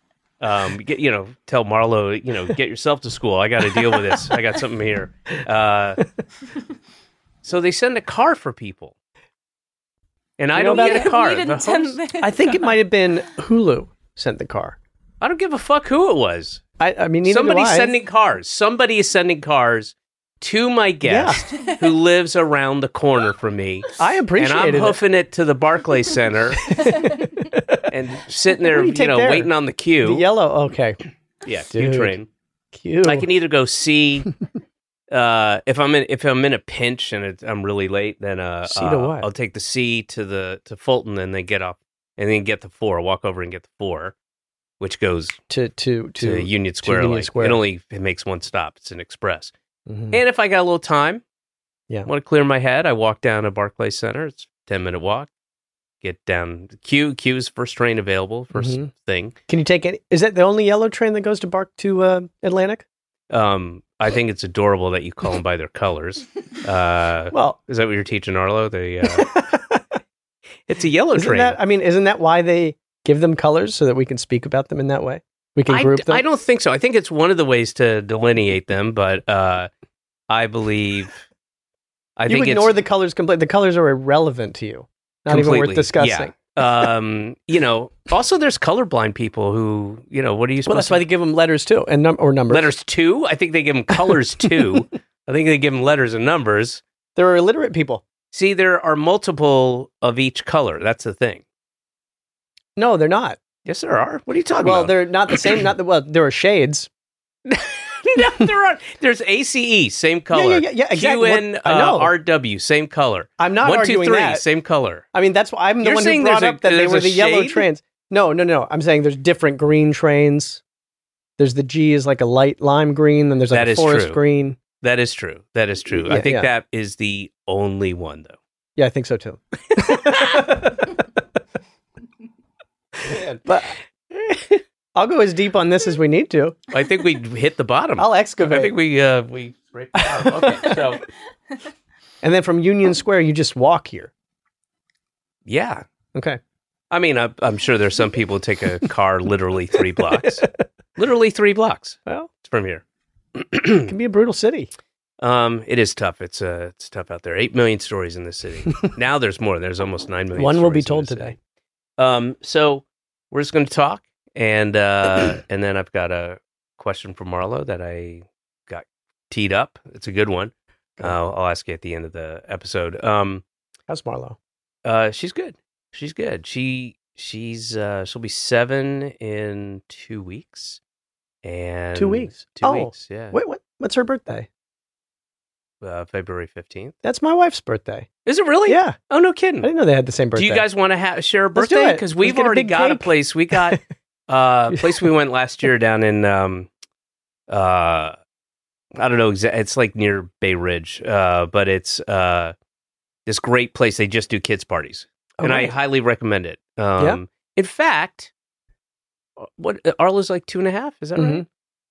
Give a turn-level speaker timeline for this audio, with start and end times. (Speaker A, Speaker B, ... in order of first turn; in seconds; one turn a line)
Speaker A: 0.4-6.0
Speaker A: 7.4-8.9
Speaker A: 10.4-12.0
Speaker B: 10.5-11.2
Speaker C: 10.7-12.8
Speaker B: 12.1-14.8
Speaker A: 15.2-16.6
Speaker B: 16.8-18.0
Speaker A: 17.2-26.9
Speaker B: 21.0-21.5
Speaker B: 24.0-25.0
Speaker B: 26.6-27.9
Speaker A: 27.9-30.3
Speaker B: 28.6-31.0
Speaker A: 31.4-32.3
Speaker B: 31.7-32.2
Speaker B: 32.7-33.3
Speaker A: 33.0-34.3
Speaker A: 35.1-44.1
Speaker B: 38.6-39.3
Speaker A: 44.8-45.4
Speaker B: 45.5-47.6
Speaker A: 46.2-49.5
Speaker B: 49.9-50.2
Speaker A: 50.1-51.2
Speaker A: 52.0-55.3
Speaker A: 56.0-59.4
Speaker B: 58.5-58.9
Speaker B: 59.5-62.8
Speaker A: 63.3-69.4
Speaker B: 67.3-67.6
Speaker B: 69.0-69.8
Speaker A: 70.7-71.6
Speaker B: 71.1-76.2
Speaker A: 75.7-79.7
Speaker A: 80.3-81.2
Speaker A: 82.2-82.8
Speaker B: 82.3-86.3
Speaker A: 85.3-91.0
Speaker B: 90.7-92.7
Speaker A: 92.5-96.8
Speaker B: 97.2-98.0
Speaker A: 98.3-101.4
Speaker B: 102.8-103.4
Speaker A: 103.6-105.5
Speaker B: 104.6-106.9
Speaker A: 107.5-115.0
Speaker B: 110.3-112.1
Speaker B: 113.4-114.4
Speaker B: 115.1-120.6
Speaker A: 115.8-117.7
Speaker B: 121.4-124.6
Speaker A: 123.5-124.2
Speaker A: 124.8-128.4
Speaker B: 125.9-126.5
Speaker B: 128.8-131.0
Speaker A: 129.9-130.5
Speaker A: 133.0-133.4
Speaker B: 133.1-136.6
Speaker A: 136.7-141.0
Speaker B: 138.0-138.7
Speaker B: 139.9-140.8
Speaker B: 142.2-144.1
Speaker A: 145.4-145.8
Speaker B: 146.1-146.4
Speaker A: 146.9-150.4
Speaker A: 151.0-152.8
Speaker A: 153.3-153.9
Speaker B: 153.8-154.7
Speaker A: 155.2-161.4
Speaker B: 160.4-161.3
Speaker A: 162.0-173.4
Speaker B: 173.9-174.4
Speaker A: 174.8-180.8
Speaker A: 181.4-183.4
Speaker B: 181.9-184.5
Speaker A: 185.8-186.9
Speaker B: 187.0-188.1
Speaker A: 188.2-189.7
Speaker B: 188.7-188.9
Speaker B: 189.6-190.7
Speaker A: 190.3-196.7
Speaker B: 191.5-193.8
Speaker A: 197.5-198.2
Speaker A: 198.9-202.5
Speaker A: 203.2-208.3
Speaker B: 205.4-205.7
Speaker A: 209.4-211.5
Speaker B: 211.2-211.4